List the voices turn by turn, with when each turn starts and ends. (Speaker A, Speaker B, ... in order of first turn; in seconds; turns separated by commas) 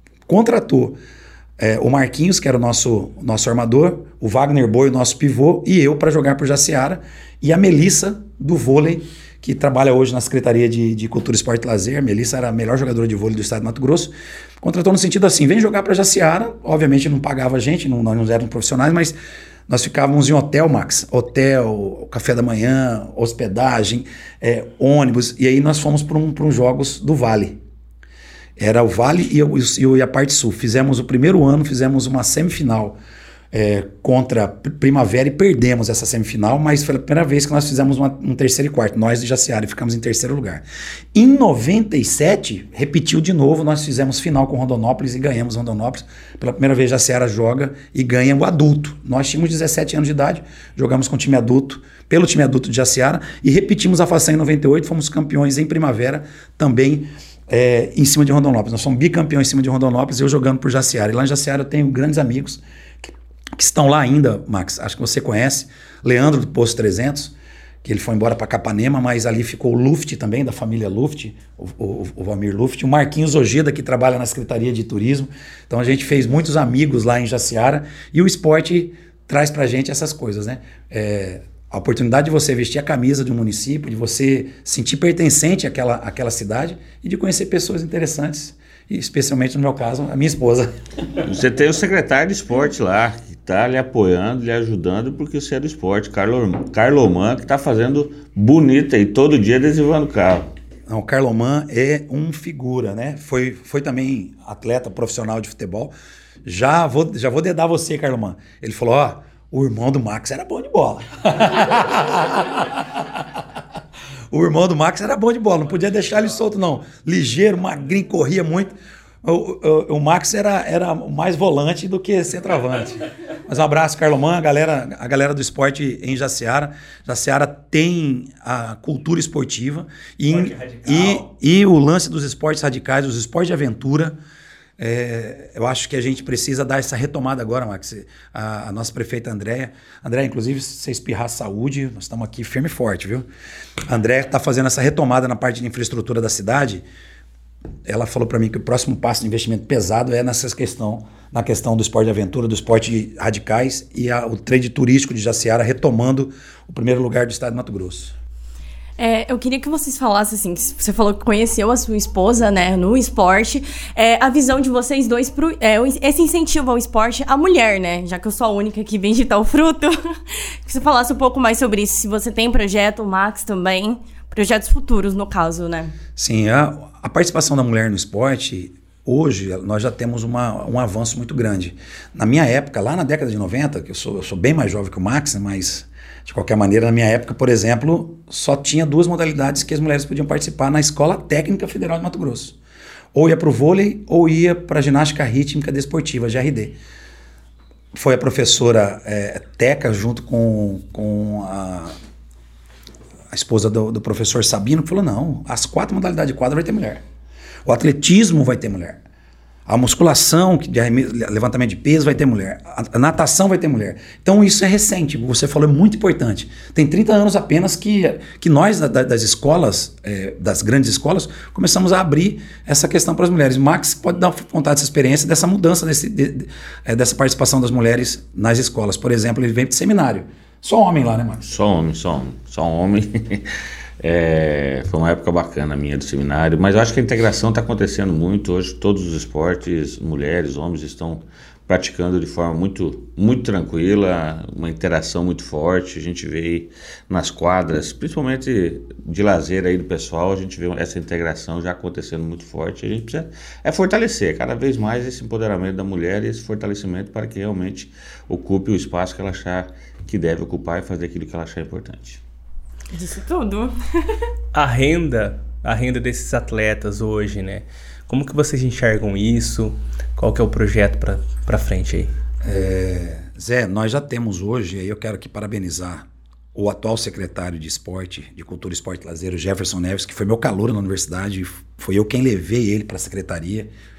Speaker A: 0.3-1.0, Speaker A: 1.6-19.1, Speaker A: 19.7-27.6, Speaker A: 28.6-33.0, Speaker A: 33.5-90.7, Speaker B: 91.2-100.5, Speaker A: 100.9-105.9, Speaker A: 106.4-113.4, Speaker A: 114.3-134.2, Speaker C: 130.3-131.3, Speaker A: 134.8-143.3, Speaker A: 143.8-146.8, Speaker A: 147.8-158.1, Speaker D: 159.0-175.9, Speaker A: 176.2-192.6, Speaker A: 193.1-196.8, Speaker A: 197.9-201.9, Speaker A: 203.3-207.0, Speaker A: 207.7-209.0, Speaker A: 209.7-231.6, Speaker B: 231.5-262.2, Speaker D: 262.9-264.2, Speaker C: 264.5-272.1, Speaker A: 272.4-283.7